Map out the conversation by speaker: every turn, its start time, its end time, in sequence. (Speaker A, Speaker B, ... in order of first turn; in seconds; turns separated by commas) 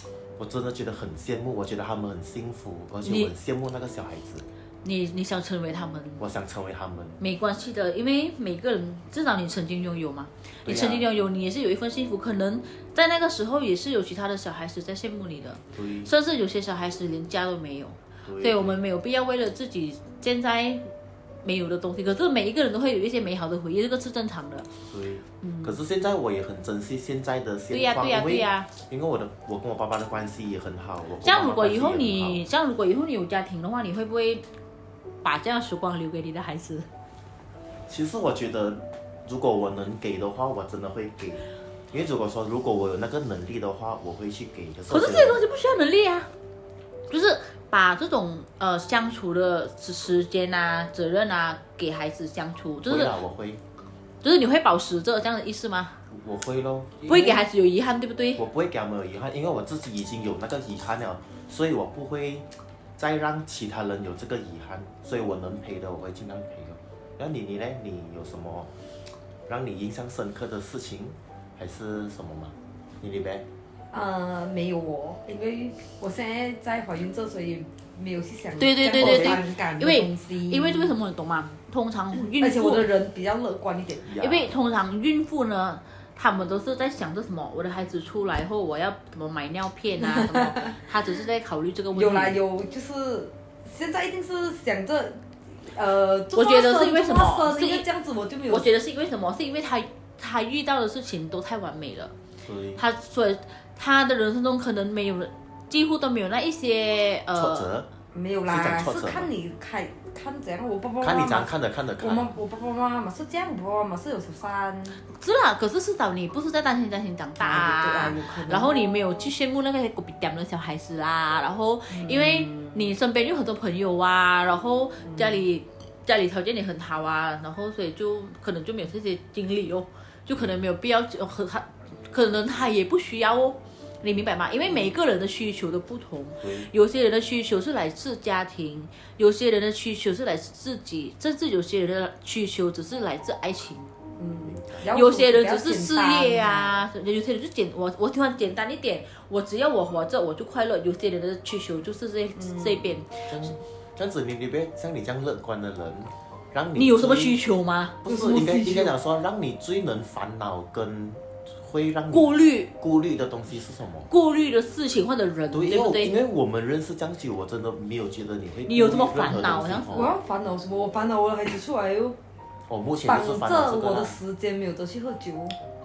Speaker A: 0.4-4.4, Speaker B: 3.0-3.3, Speaker B: 4.8-6.2, Speaker A: 6.2-7.2, Speaker B: 7.2-20.9, Speaker A: 10.7-11.1, Speaker A: 15.7-16.1, Speaker A: 18.2-18.8, Speaker B: 21.4-24.7, Speaker A: 24.9-32.4, Speaker B: 25.4-25.7, Speaker B: 27.7-28.7, Speaker B: 31.2-34.4, Speaker B: 35.2-36.9, Speaker A: 37.9-45.4, Speaker B: 44.9-46.3, Speaker B: 47.1-53.1, Speaker A: 52.9-53.6, Speaker B: 54.2-56.0, Speaker A: 56.1-57.5, Speaker B: 57.0-58.4, Speaker A: 58.4-68.7, Speaker A: 69.5-73.5, Speaker C: 73.9-80.9, Speaker B: 78.6-82.9, Speaker A: 79.0-79.4, Speaker C: 82.2-84.1, Speaker A: 84.0-84.5, Speaker B: 84.2-92.4, Speaker C: 90.1-90.7, Speaker C: 91.9-98.7, Speaker B: 96.3-97.8, Speaker B: 98.5-102.1, Speaker A: 102.4-102.8, Speaker B: 102.8-107.7, Speaker A: 107.3-107.9, Speaker C: 108.1-115.0, Speaker A: 108.5-109.3, Speaker A: 111.0-112.3, Speaker B: 115.1-143.9, Speaker C: 117.4-118.8, Speaker C: 121.9-122.9, Speaker C: 125.0-125.4, Speaker A: 136.4-136.7, Speaker C: 144.2-146.7, Speaker A: 144.4-144.9, Speaker B: 144.9-153.3, Speaker C: 152.3-152.8, Speaker A: 153.3-157.3, Speaker B: 156.8-158.0, Speaker A: 158.0-164.1, Speaker C: 158.1-158.9, Speaker B: 162.1-162.7, Speaker B: 164.1-166.1, Speaker A: 165.5-170.2, Speaker B: 168.7-170.1, Speaker C: 169.9-172.2, Speaker A: 172.7-174.2, Speaker C: 173.0-175.6